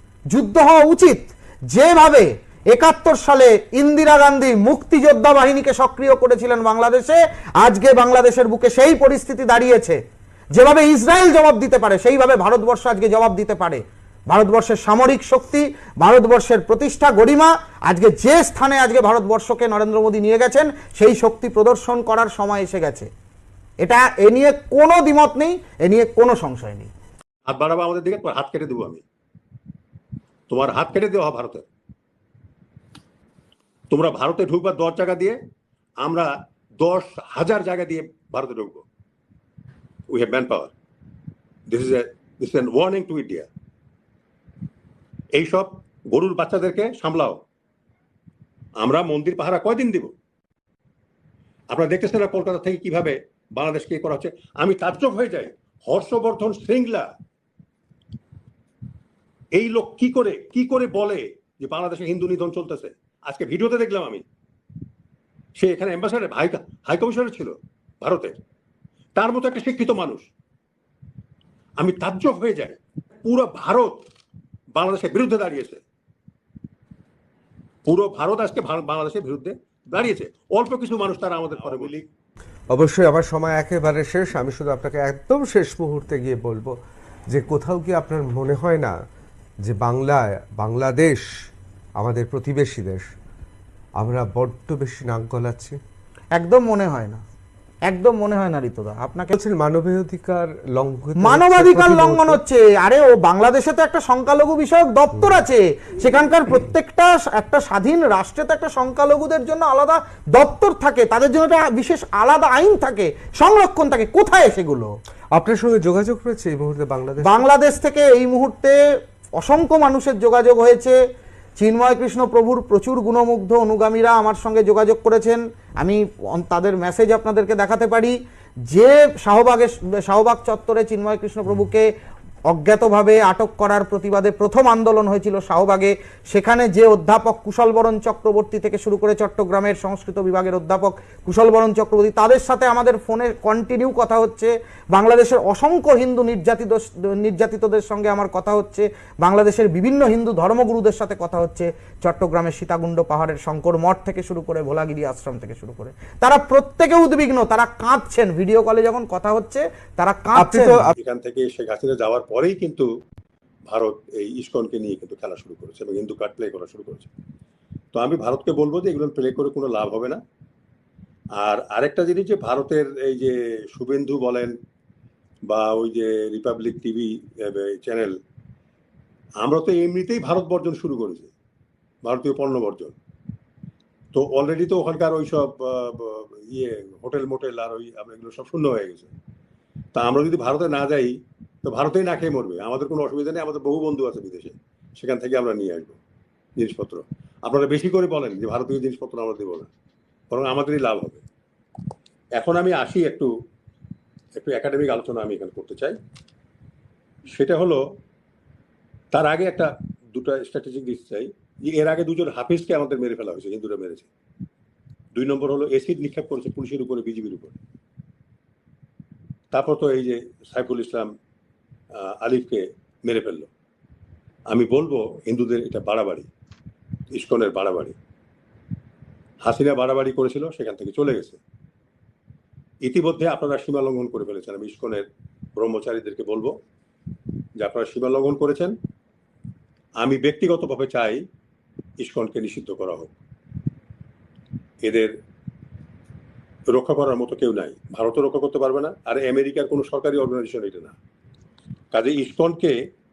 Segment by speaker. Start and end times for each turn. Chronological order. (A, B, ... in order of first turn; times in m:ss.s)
0:00.3-0:10.0 A
0:10.6-0:23.1 A
0:23.8-0:26.9 A
0:27.5-0:29.0 B
0:30.5-0:31.6 B
0:33.9-0:35.4 B
0:36.0-0:38.8 B
0:40.1-0:40.7 B
0:41.7-0:43.5 B
0:45.3-0:47.4 B
0:48.8-0:50.1 B
0:51.7-0:57.1 B
0:59.5-1:04.2 B
1:05.6-1:08.4 B
1:09.2-1:10.3 B
1:11.8-1:14.0 B
1:14.7-1:15.8 B
1:17.8-1:22.0 B
1:22.7-1:26.8 C
1:27.3-1:29.0 C
1:29.6-1:31.2 C
1:32.0-1:33.1 C
1:34.0-1:35.8 C
1:36.3-1:37.2 A
1:37.9-1:39.4 A
1:39.3-1:42.4 C
1:41.2-1:54.9 A
1:55.4-1:57.5 C
1:57.2-1:58.8 A
1:59.4-2:01.0 A
2:01.6-2:08.2 A
2:08.7-2:11.9 A
2:12.5-2:40.9 A
2:40.4-2:40.9 C
2:41.0-2:42.9 B
2:43.7-2:47.1 B
2:47.9-2:50.2 B
2:51.4-2:54.5 B
2:55.5-2:58.2 B
2:59.4-3:01.3 B
3:02.0-3:03.0 B
3:04.1-3:09.1 B
3:10.0-3:16.0 B
3:16.6-3:19.7 B
3:20.3-3:21.2 B
3:22.4-3:23.3 B
3:24.4-3:26.0 B
3:27.3-3:27.8 B
3:29.1-3:34.1 B
3:35.1-3:37.6 B
3:39.5-3:41.1 B
3:42.0-3:43.5 B
3:44.5-3:46.3 B
3:47.1-3:48.0 B
3:49.4-3:51.4 B
3:52.8-3:56.6 B
3:57.6-3:58.8 B
4:00.0-4:01.2 B
4:02.0-4:03.2 B
4:04.8-4:05.2 B
4:06.7-4:11.0 B
4:11.9-4:12.8 B